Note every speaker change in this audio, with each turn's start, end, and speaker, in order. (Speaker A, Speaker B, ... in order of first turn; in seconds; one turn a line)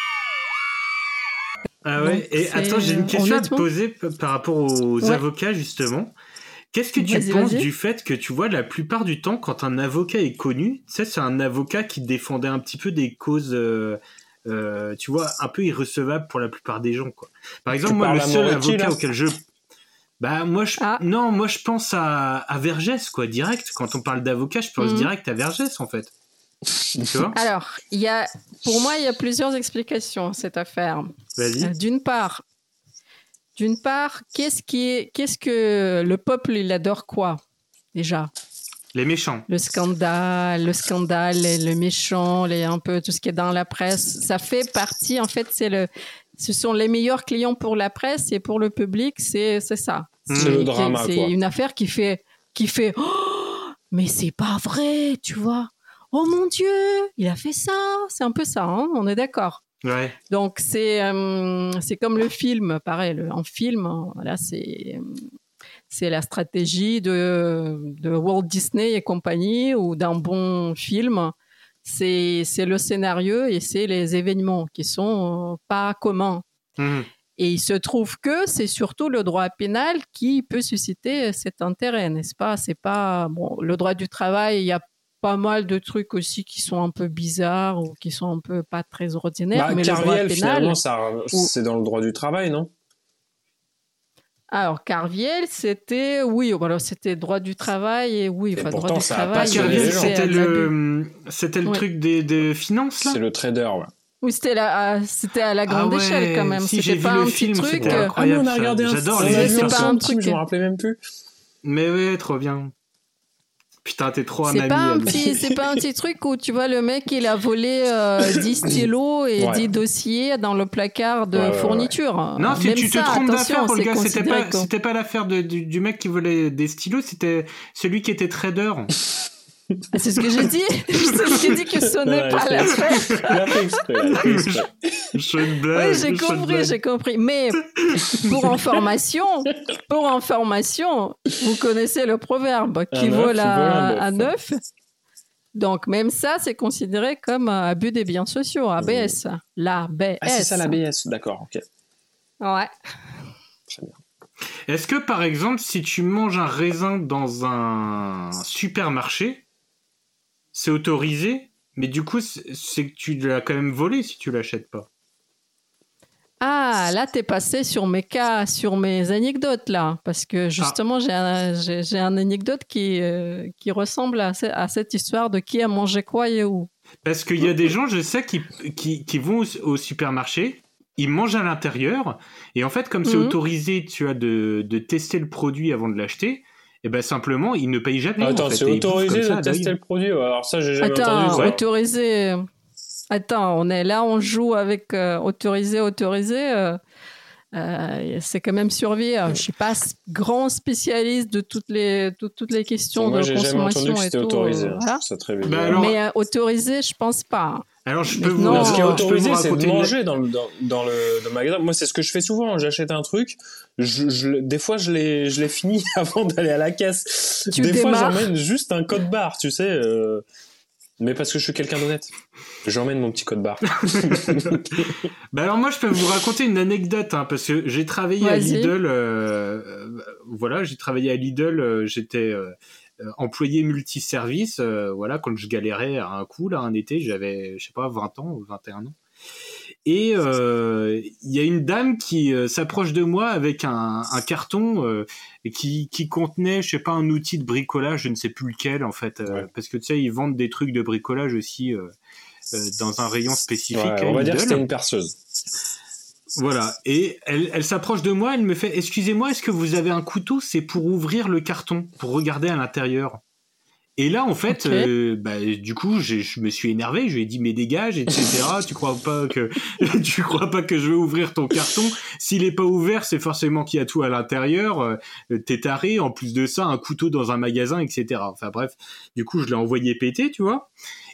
Speaker A: 1.8-6.1
Speaker B: 2.0-3.6
Speaker A: 6.7-19.4
Speaker B: 7.0-7.7
Speaker C: 17.7-18.9
Speaker A: 20.2-26.1
Speaker B: 24.8-25.1
Speaker A: 27.0-27.4
Speaker B: 27.3-32.4
Speaker A: 31.4-31.7
Speaker B: 33.5-37.4
Speaker B: 37.9-38.3
Speaker A: 38.9-39.5
Speaker B: 39.5-59.6
Speaker A: 50.3-50.6
Speaker C: 50.3-51.3
Speaker A: 59.8-60.2
Speaker B: 60.3-65.2
Speaker B: 65.9-76.4
Speaker A: 76.8-77.1
Speaker B: 77.3-90.8
Speaker C: 89.5-92.7
Speaker B: 94.5-100.7
Speaker C: 98.5-100.2
Speaker A: 99.3-103.2
Speaker C: 103.0-103.9
Speaker B: 104.2-108.1
Speaker A: 105.7-109.9
Speaker C: 107.7-111.0
Speaker B: 109.2-110.4
Speaker A: 111.6-112.7
Speaker A: 113.8-115.2
Speaker B: 114.5-124.7
Speaker C: 115.1-115.5
Speaker C: 119.4-119.7
Speaker C: 121.3-121.9
Speaker A: 122.4-128.9
Speaker B: 129.9-133.6
Speaker C: 131.9-135.2
Speaker A: 134.1-136.7
Speaker B: 135.7-144.6
Speaker A: 137.8-138.3
Speaker C: 142.9-144.3
Speaker B: 145.5-150.8
Speaker C: 148.8-149.2
Speaker C: 150.2-151.6
Speaker B: 152.4-152.7
Speaker C: 153.7-154.0
Speaker A: 154.7-159.4
Speaker A: 160.5-164.9
Speaker B: 166.4-176.7
Speaker A: 177.0-189.7
Speaker B: 183.0-183.4
Speaker C: 188.2-191.6
Speaker B: 190.8-192.4
Speaker B: 193.1-196.8
Speaker B: 197.5-205.0
Speaker C: 202.9-205.9
Speaker A: 205.4-206.0
Speaker B: 205.7-209.0
Speaker A: 207.8-209.9
Speaker C: 208.4-220.2
Speaker B: 217.5-218.3
Speaker C: 221.0-222.1
Speaker C: 222.6-225.1
Speaker A: 223.8-238.9
Speaker B: 228.2-228.7
Speaker A: 239.8-251.9
Speaker A: 252.5-254.6
Speaker C: 253.7-255.1
Speaker A: 256.4-263.2
Speaker A: 264.0-280.7
Speaker B: 264.5-264.9